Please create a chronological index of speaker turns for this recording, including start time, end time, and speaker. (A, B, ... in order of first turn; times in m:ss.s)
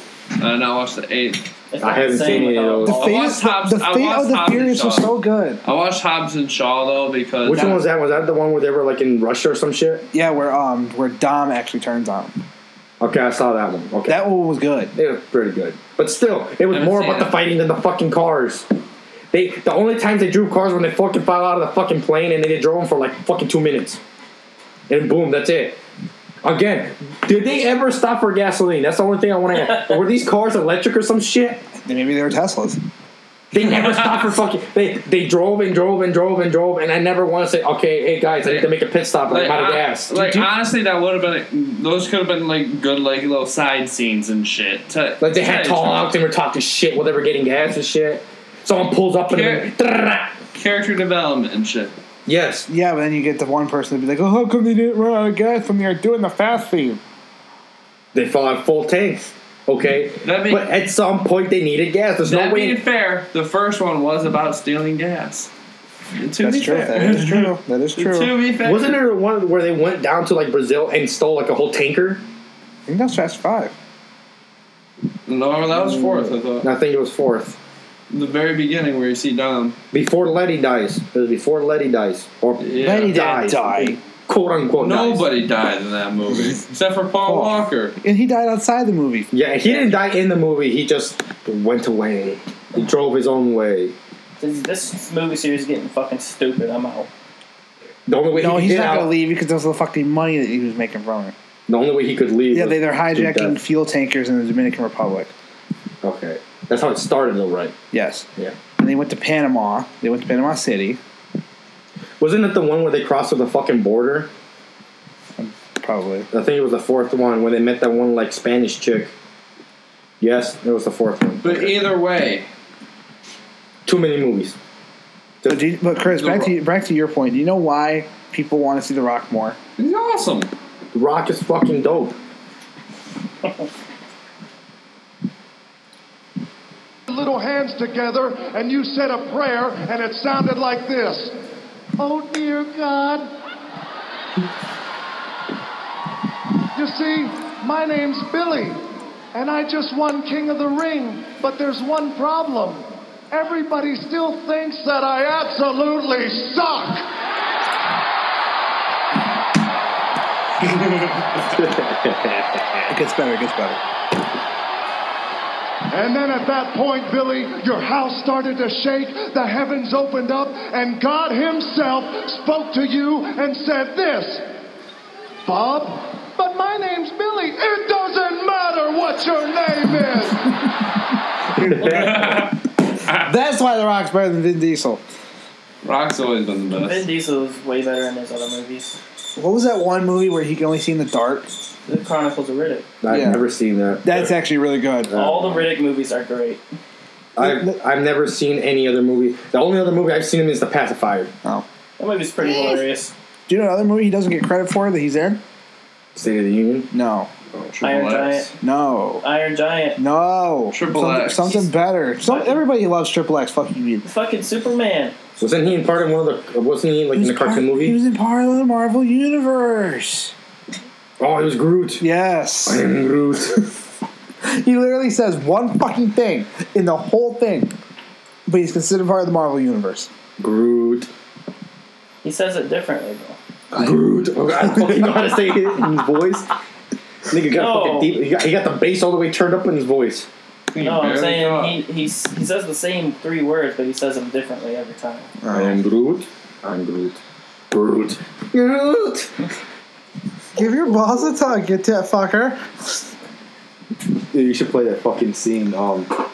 0:00.4-0:01.4 A
0:01.7-0:03.2 B
0:01.8-0:03.1 C
0:02.9-0:05.6 D
0:02.9-0:05.1 A
0:05.6-0:07.9 A
0:07.4-0:10.0 C
0:10.1-0:12.4 D
0:13.0-0:14.2 C
0:14.1-0:14.9 D
0:14.9-0:18.6 C
0:16.7-0:17.4 A
0:19.3-0:24.0 C
0:24.9-0:25.8 C
0:26.4-0:31.6 C
0:31.8-0:32.8 D
0:33.5-0:40.4 C
0:33.6-0:34.2 A
0:38.4-0:38.7 A
0:39.3-0:46.1 A
0:45.2-0:50.3 C
0:49.3-0:49.7 A
0:50.5-0:51.9 A
0:52.2-0:52.7 C
0:52.7-0:57.0 D
0:58.1-1:02.8 C
1:00.2-1:00.7 A
1:02.2-1:05.5 A
1:06.1-1:09.0 A
1:06.4-1:08.4 D
1:08.6-1:12.2 C
1:12.9-1:13.7 D
1:15.3-1:16.7 A
1:15.7-1:17.6 C
1:18.1-1:19.8 A
1:19.9-1:25.2 C
1:22.6-1:23.3 A
1:22.8-1:24.0 D
1:24.8-1:27.9 A
1:27.2-1:29.9 D
1:29.3-1:33.9 C
1:34.4-1:37.1 B
1:38.1-1:39.1 C
1:38.3-1:41.3 D
1:41.7-1:43.6 C
1:42.5-1:45.3 D
1:46.0-1:47.7 C
1:47.9-1:51.0 D
1:52.2-1:54.3 C
1:55.4-1:56.3 D
1:56.3-1:59.1 C
2:00.2-2:01.8 C
2:01.4-2:02.5 A
2:03.9-2:04.6 C
2:05.5-2:09.6 D
2:06.1-2:06.5 A
2:09.8-2:10.5 A
2:10.9-2:12.2 C
2:17.1-2:21.4 E
2:22.0-2:23.3 E
2:26.7-2:37.1 E
2:41.4-2:42.9 C
2:42.9-2:43.8 D
2:45.9-2:54.5 E
2:55.4-3:00.5 E
3:01.6-3:02.5 C
3:01.9-3:02.5 A
3:03.2-3:05.0 D
3:05.8-3:07.0 A
3:06.8-3:09.0 B
3:09.4-3:11.5 D
3:11.9-3:12.9 B
3:13.0-3:14.3 C
3:13.1-3:13.4 D
3:14.0-3:15.2 D
3:15.1-3:15.7 C
3:15.1-3:16.6 B
3:17.4-3:21.3 C
3:17.4-3:17.8 D
3:22.0-3:23.1 B
3:23.5-3:25.4 D
3:26.1-3:26.9 C
3:26.9-3:27.3 D
3:27.6-3:28.5 A
3:27.8-3:28.5 B
3:28.6-3:29.2 D
3:29.2-3:30.0 B
3:30.0-3:34.0 D
3:30.7-3:31.6 A
3:32.3-3:32.6 B
3:34.0-3:35.1 B
3:35.4-3:38.0 C
3:37.1-3:40.3 D
3:41.2-3:42.0 C
3:42.0-3:42.9 D
3:42.6-3:43.6 C
3:44.4-3:47.7 D
3:48.5-3:50.1 D
3:50.4-3:51.1 C
3:52.2-3:53.4 B
3:53.7-3:55.3 D
3:53.7-3:56.5 C
3:57.3-4:00.3 C
3:57.5-3:58.2 B
4:00.7-4:01.8 A
4:00.7-4:05.3 B
4:05.4-4:05.8 D
4:05.5-4:07.2 C
4:07.7-4:09.3 C
4:10.6-4:13.0 D
4:14.3-4:16.2 C